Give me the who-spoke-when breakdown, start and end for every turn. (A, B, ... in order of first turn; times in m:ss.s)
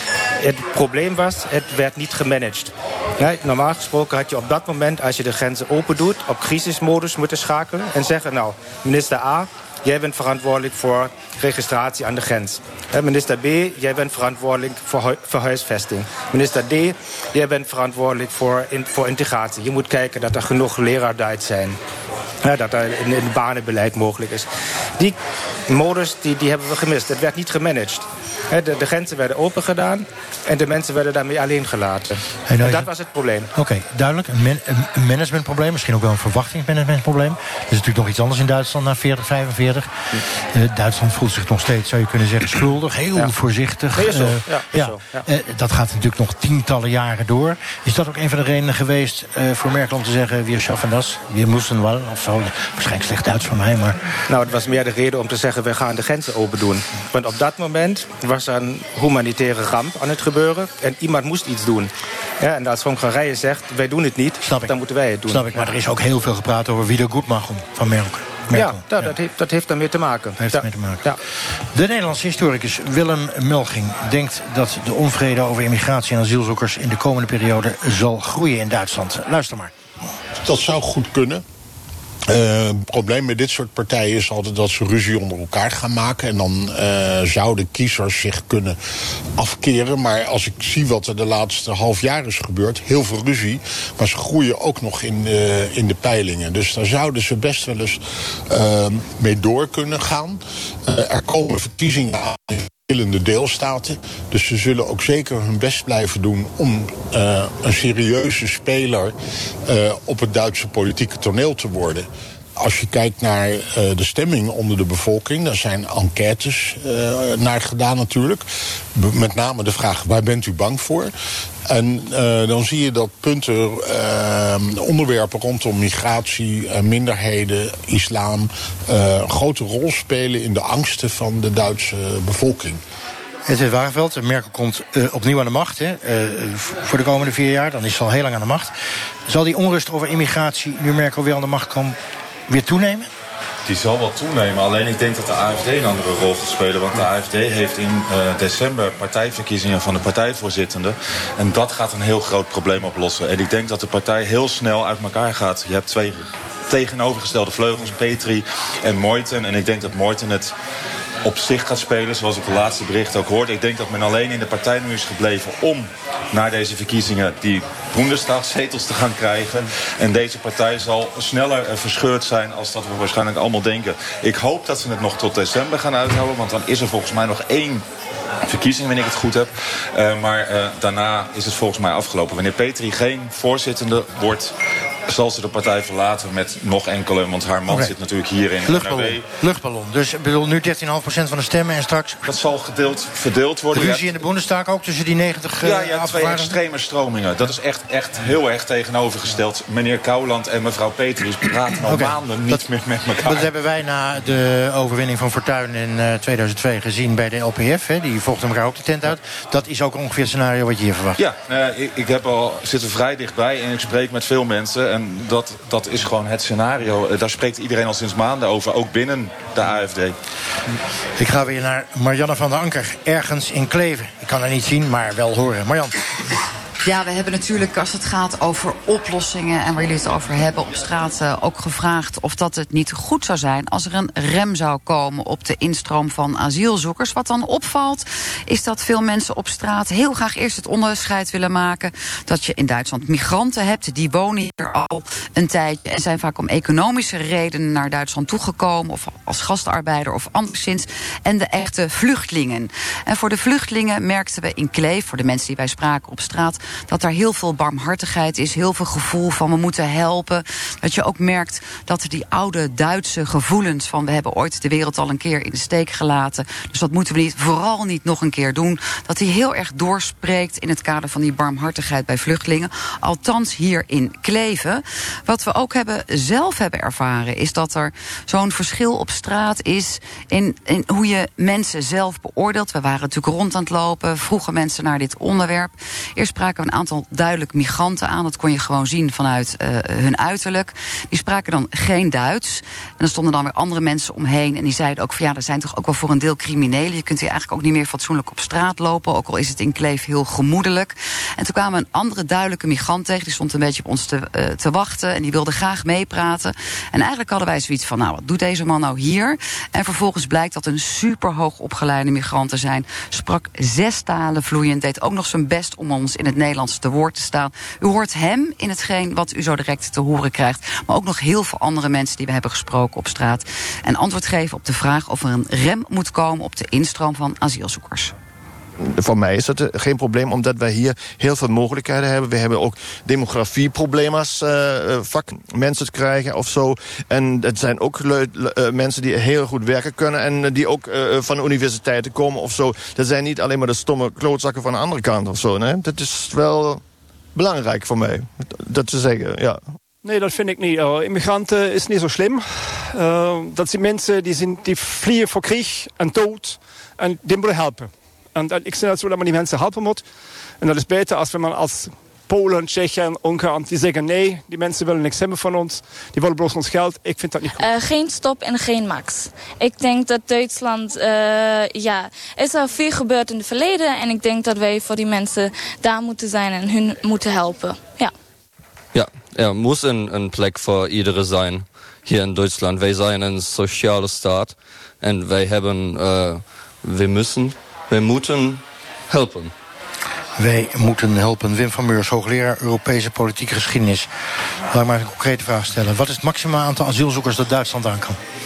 0:00.4-0:21.8 A
0:22.4-0:25.2 A
0:25.7-0:33.5 A
0:32.5-0:32.9 B
0:33.5-0:39.9 B
0:40.5-0:54.1 B
0:44.0-0:45.3 A
0:54.3-1:05.7 A
1:04.4-1:04.8 B
1:05.3-1:09.1 B
1:08.5-1:11.2 A
1:10.4-1:11.1 B
1:11.7-1:19.7 B
1:20.4-1:21.4 C
1:22.3-1:28.8 C
1:29.4-1:49.2 C
1:49.7-1:58.4 C
1:59.0-2:01.1 C
2:01.7-2:12.8 C
2:13.5-2:18.7 B
2:19.3-2:22.0 B
2:22.5-2:23.1 B
2:23.7-2:40.5 D
2:41.2-2:57.8 D
2:58.4-3:04.6 D
3:05.1-3:09.2 D
3:07.7-3:07.9 B
3:08.6-3:12.3 B
3:12.3-3:14.1 D
3:13.7-3:16.6 B
3:15.6-3:23.5 D
3:21.9-3:22.6 B
3:23.2-3:31.2 B
3:31.2-3:40.2 D
3:41.2-3:46.0 B
3:46.8-5:28.1 E
5:28.8-5:46.8 F
5:47.4-5:49.8 F
5:50.0-6:00.1 G
6:00.6-6:07.7 G
6:07.6-6:18.1 H
6:18.9-6:29.5 I
6:30.4-6:34.1 B
6:34.7-6:38.2 B